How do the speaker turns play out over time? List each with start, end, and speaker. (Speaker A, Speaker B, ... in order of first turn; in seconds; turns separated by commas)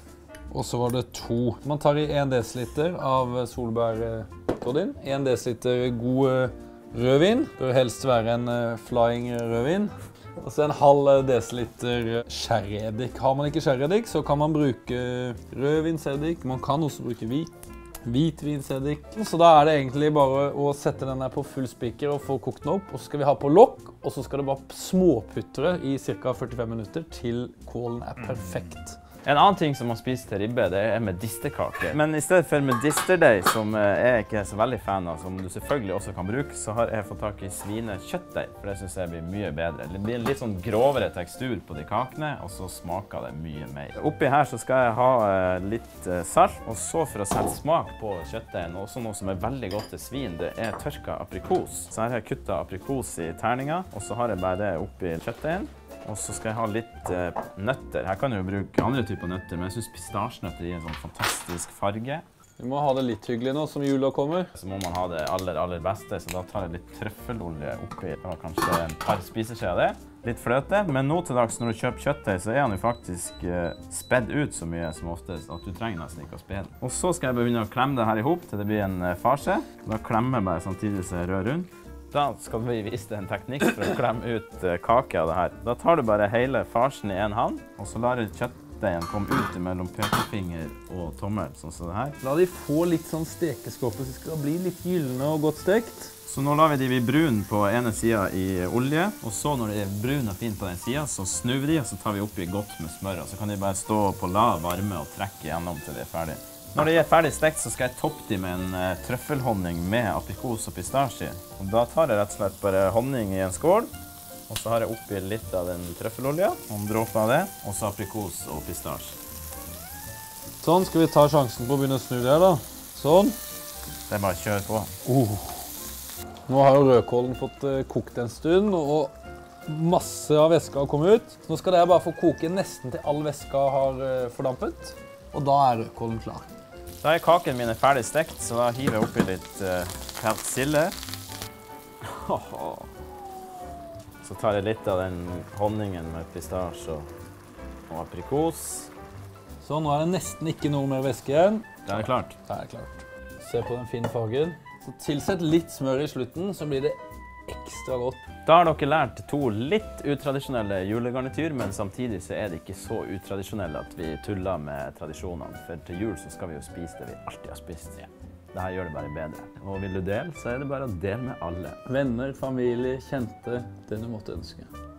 Speaker A: 0.5-17.5, Speaker A: 18.0-29.0, Speaker B: 29.2-62.2, Speaker A: 62.6-64.5, Speaker B: 64.5-92.2, Speaker A: 92.2-96.1, Speaker B: 96.3-113.9, Speaker B: 114.5-119.2, Speaker A: 120.6-123.3, Speaker B: 124.1-124.9, Speaker A: 125.0-125.6, Speaker A: 126.5-129.1, Speaker A: 129.7-136.5, Speaker B: 137.0-140.9, Speaker B: 142.0-142.9, Speaker B: 144.2-147.1, Speaker B: 147.9-148.9, Speaker A: 149.6-158.2, Speaker B: 151.8-152.3, Speaker B: 158.4-171.8, Speaker A: 171.8-174.7